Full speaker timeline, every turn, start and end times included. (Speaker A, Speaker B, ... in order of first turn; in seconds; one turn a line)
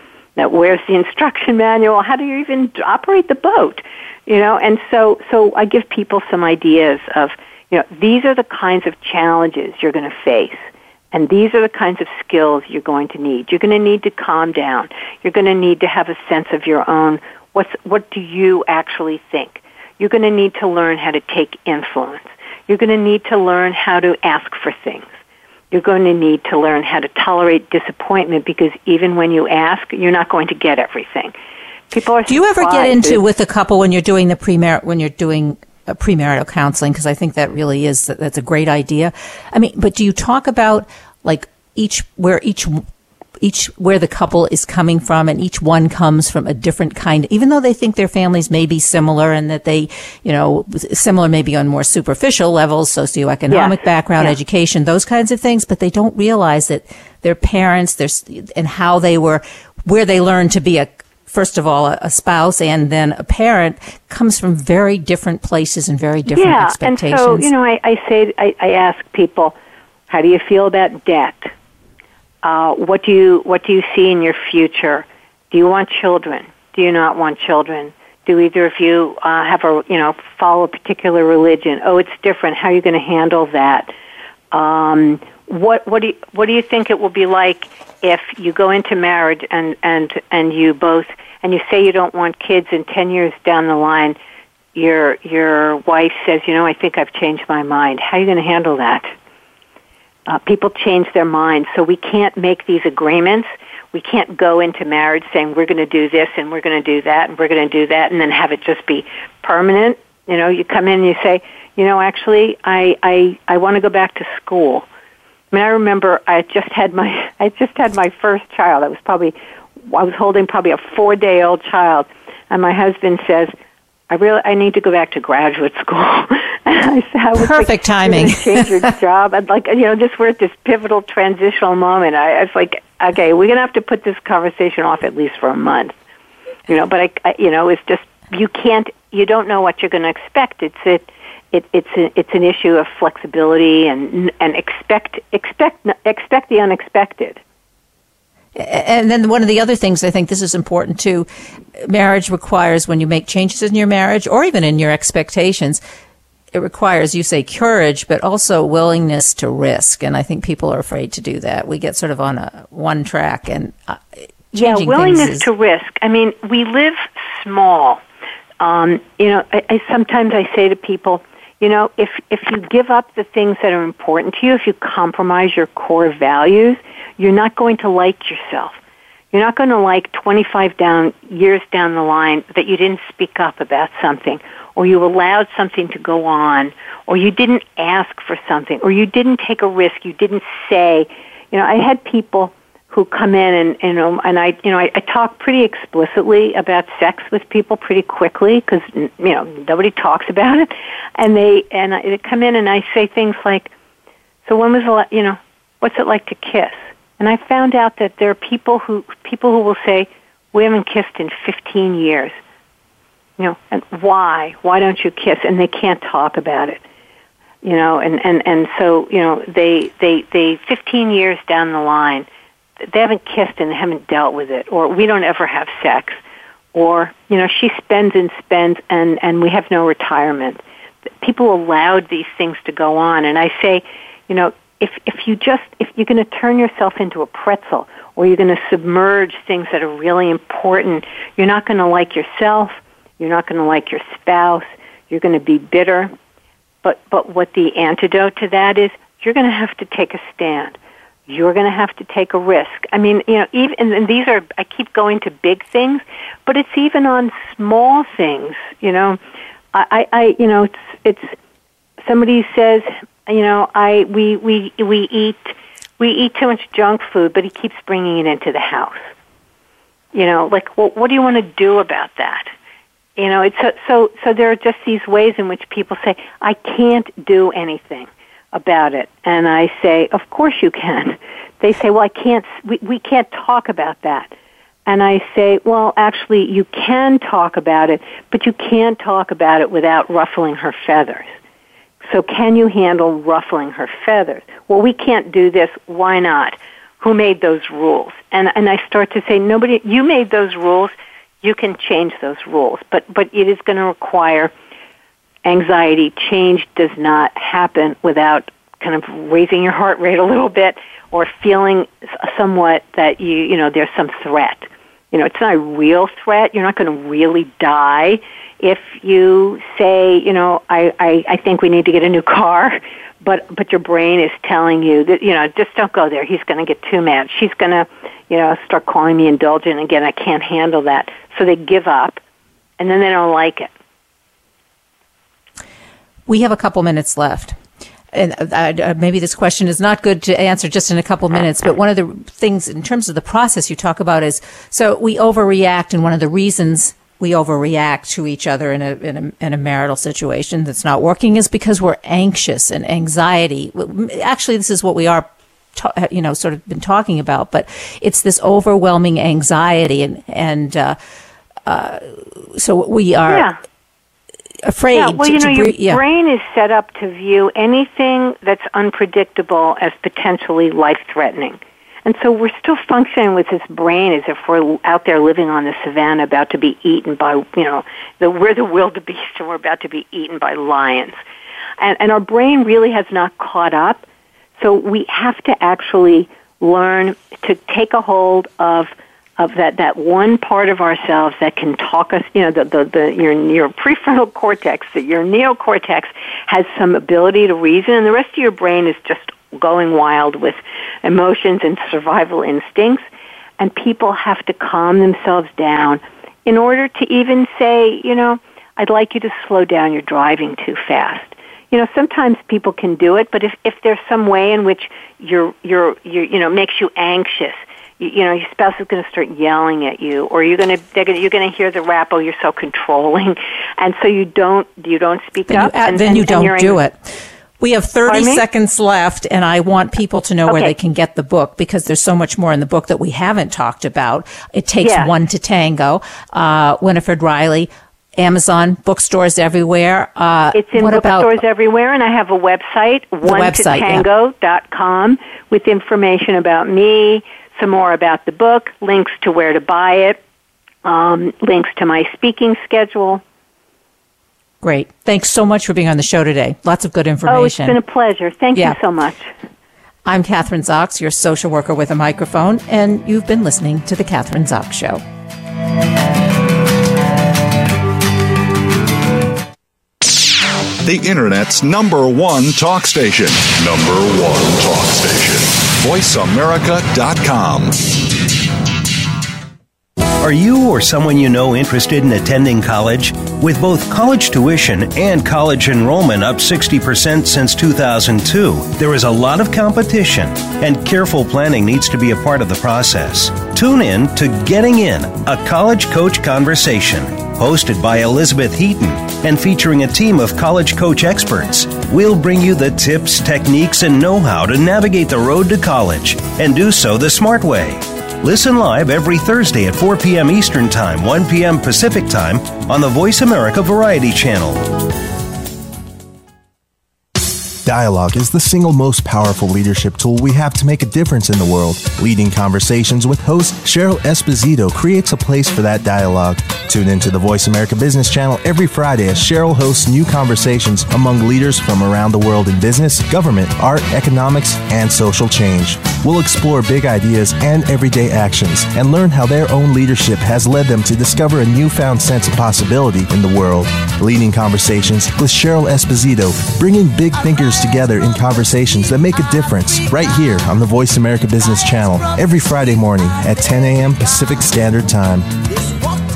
Speaker A: 0.4-25.1
Speaker A: 25.7-31.3
Speaker A: 31.9-33.2
Speaker B: 32.3-42.9
Speaker B: 43.4-67.5
Speaker A: 53.5-54.4
Speaker A: 66.3-69.5
Speaker A: 70.1-71.5
Speaker A: 72.4-83.9
Speaker A: 84.5-94.2
Speaker A: 94.7-99.1
Speaker A: 100.3-114.8
Speaker A: 115.5-123.5
Speaker A: 124.1-135.9
Speaker B: 127.3-128.8
Speaker A: 136.7-147.4
Speaker B: 148.5-155.8
Speaker B: 156.5-165.5
Speaker A: 164.5-168.0
Speaker A: 168.6-178.8
Speaker A: 179.3-203.7
Speaker A: 204.4-212.3
Speaker A: 213.4-216.8
Speaker A: 217.6-222.3
Speaker A: 222.9-226.2
Speaker A: 226.7-230.6
Speaker A: 231.2-246.1
Speaker A: 246.8-250.8
Speaker A: 251.3-259.2
Speaker A: 259.7-261.3
Speaker A: 262.0-269.1
Speaker A: 270.1-272.5
Speaker A: 273.2-284.3
Speaker A: 284.9-291.3
Speaker A: 292.1-304.5
Speaker A: 305.4-332.2
Speaker A: 332.8-333.7
Speaker B: 336.3-337.6
Speaker B: 338.1-361.0
Speaker B: 361.6-363.5
Speaker A: 363.3-363.6
Speaker B: 364.6-366.0
Speaker A: 364.9-381.2
Speaker A: 381.8-384.1
Speaker A: 384.6-403.0
Speaker A: 403.6-426.8
Speaker B: 425.5-427.1
Speaker B: 427.6-441.4
Speaker A: 428.1-428.4
Speaker A: 430.5-430.7
Speaker A: 434.8-435.1
Speaker A: 440.5-450.2
Speaker B: 443.2-444.1
Speaker A: 450.8-453.2
Speaker B: 454.6-457.8
Speaker A: 457.3-459.3
Speaker B: 460.1-465.0
Speaker C: 470.8-478.0
Speaker D: 480.1-514.7
Speaker E: 517.6-555.3